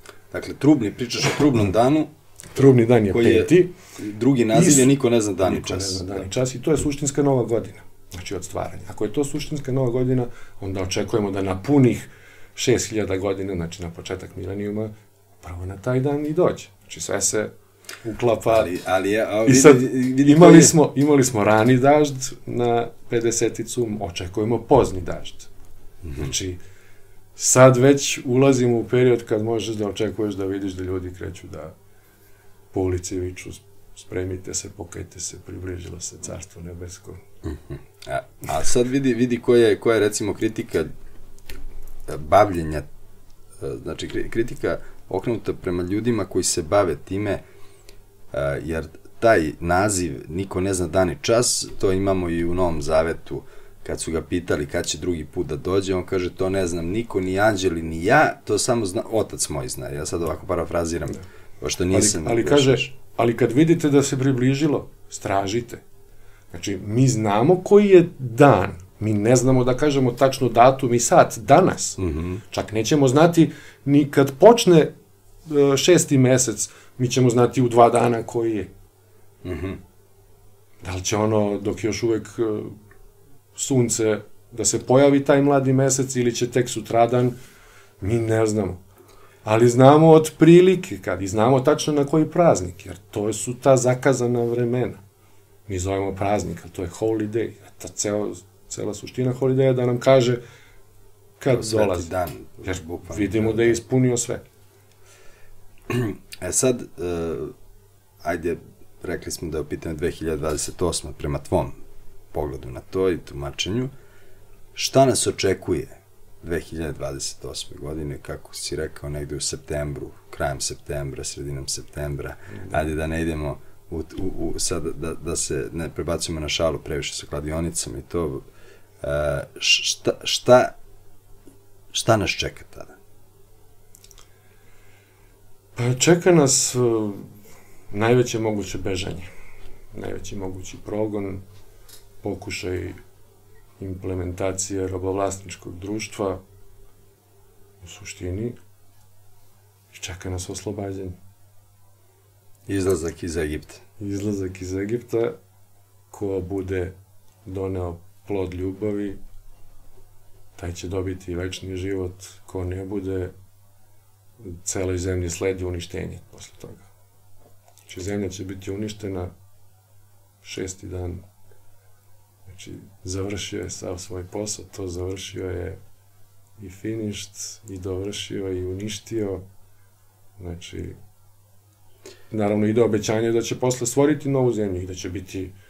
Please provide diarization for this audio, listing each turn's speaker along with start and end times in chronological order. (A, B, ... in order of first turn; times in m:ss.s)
0:00.3-0:06.3 A
0:02.5-0:03.8 B
0:04.5-0:17.5 B
0:18.0-0:18.7 B
0:18.5-0:20.8 A
0:19.4-0:25.5 B
0:26.0-0:26.3 A
0:26.1-0:26.6 B
0:27.4-0:31.7 B
0:32.7-0:37.2 B
0:37.4-0:40.9 A
0:42.1-0:42.9 A
0:43.6-0:47.4 A
0:48.3-1:02.9 A
1:01.9-1:05.8 B
1:06.5-1:14.9 B
1:12.0-1:12.4 A
1:15.5-1:18.7 B
1:19.4-1:19.8 A
1:20.8-1:22.8 B
1:23.6-1:27.4 B
1:28.0-1:28.8 B
1:29.4-1:35.0 B
1:35.7-1:40.4 B
1:41.4-1:42.1 B
1:41.5-1:43.8 A
1:42.6-1:44.4 B
1:45.9-1:47.5 A
1:48.2-1:51.8 A
1:52.3-1:53.9 A
1:54.8-2:08.4 A
2:02.5-2:02.8 B
2:09.0-2:10.8 A
2:11.9-2:13.0 A
2:15.8-2:17.3 B
2:17.9-2:19.3 B
2:19.9-2:21.4 B
2:22.2-2:23.0 B
2:23.8-2:26.4 B
2:27.8-2:28.6 B
2:29.9-2:31.2 B
2:32.7-2:33.8 A
2:34.0-2:35.4 B
2:36.1-2:39.2 B
2:40.6-2:43.3 B
2:44.4-2:46.9 B
2:47.9-2:49.3 B
2:50.4-2:51.2 B
2:52.5-2:55.8 B
2:56.6-2:59.4 B
3:00.4-3:01.0 B
3:02.3-3:05.5 B